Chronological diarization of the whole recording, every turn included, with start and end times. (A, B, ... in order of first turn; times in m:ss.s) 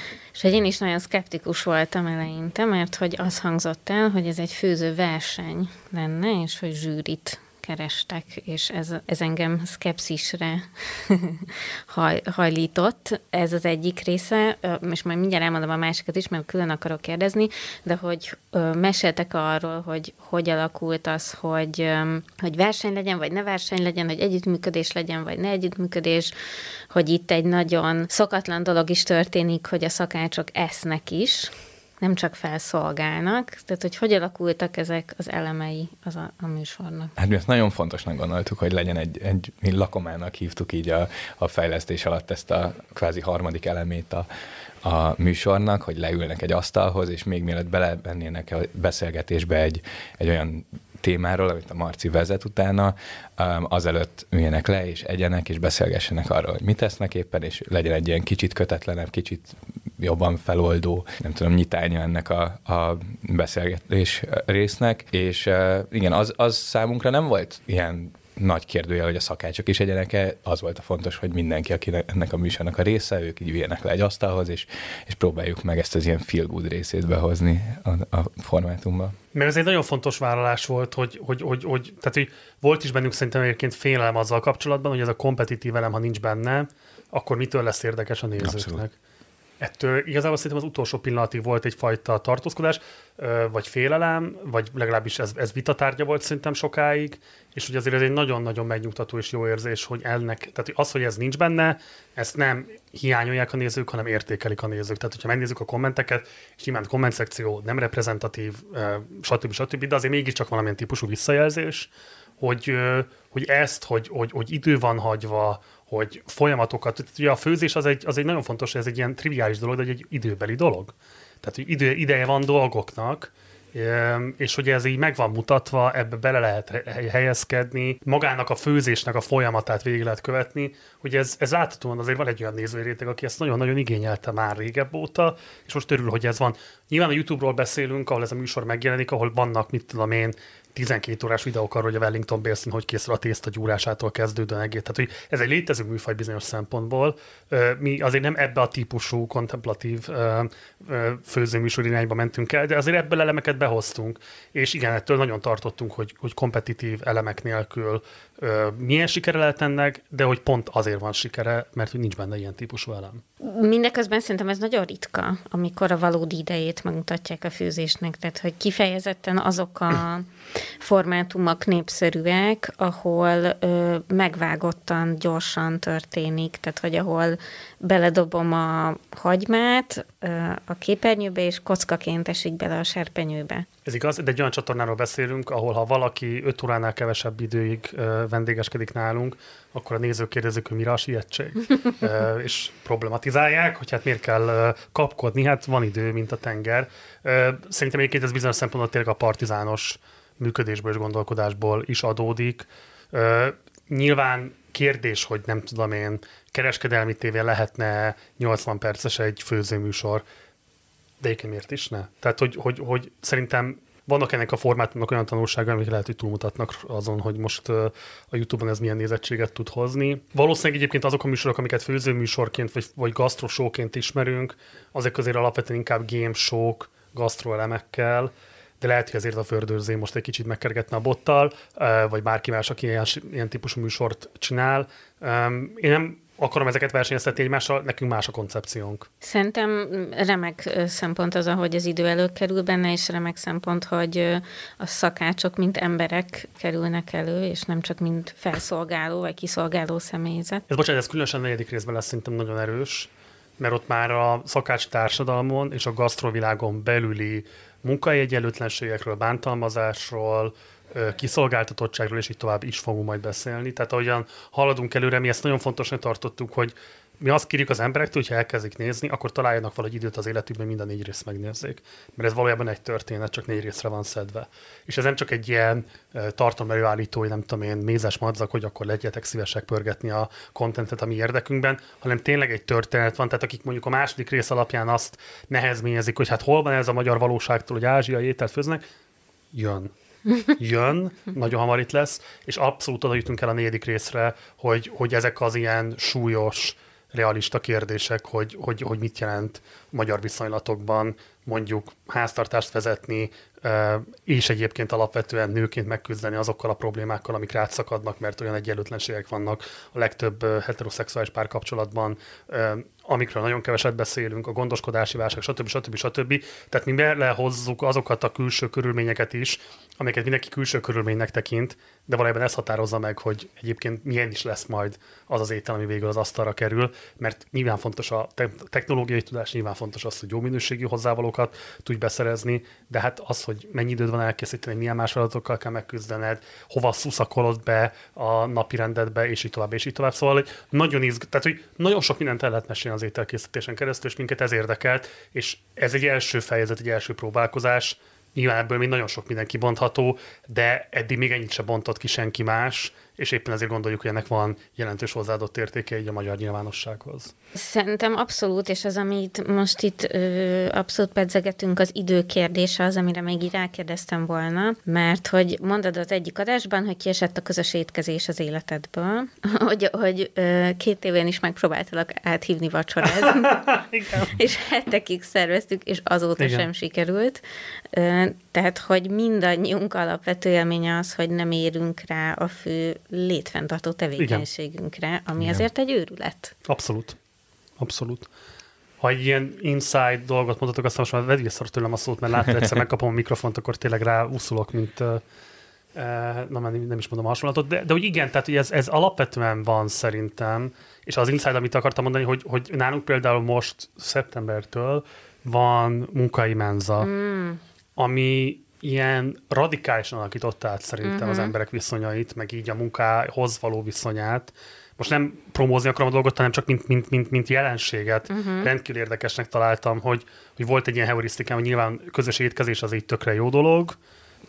0:00.3-0:26.3 A
0:26.9-0:37.1 A
0:37.2-0:44.2 B
0:44.8-1:19.2 B
1:19.3-1:28.9 C
1:28.4-1:28.8 B
1:29.6-2:43.2 C
2:43.4-2:50.3 A
2:50.8-3:03.6 A
3:03.8-3:30.2 C
3:31.2-3:59.1 C
3:59.2-4:10.6 A
4:10.7-4:48.8 C
4:49.5-4:49.9 C
4:50.5-5:57.3 C
5:57.6-6:17.4 A
6:13.3-6:14.3 C
6:16.4-6:16.7 C
6:17.9-6:26.5 A
6:24.2-6:24.4 C
6:26.7-6:27.2 C
6:27.8-6:28.3 C
6:29.0-6:35.2 C
6:36.0-6:47.1 C
6:47.0-6:47.6 A
6:48.0-7:04.0 C
6:51.0-6:51.5 A
6:58.3-6:58.7 A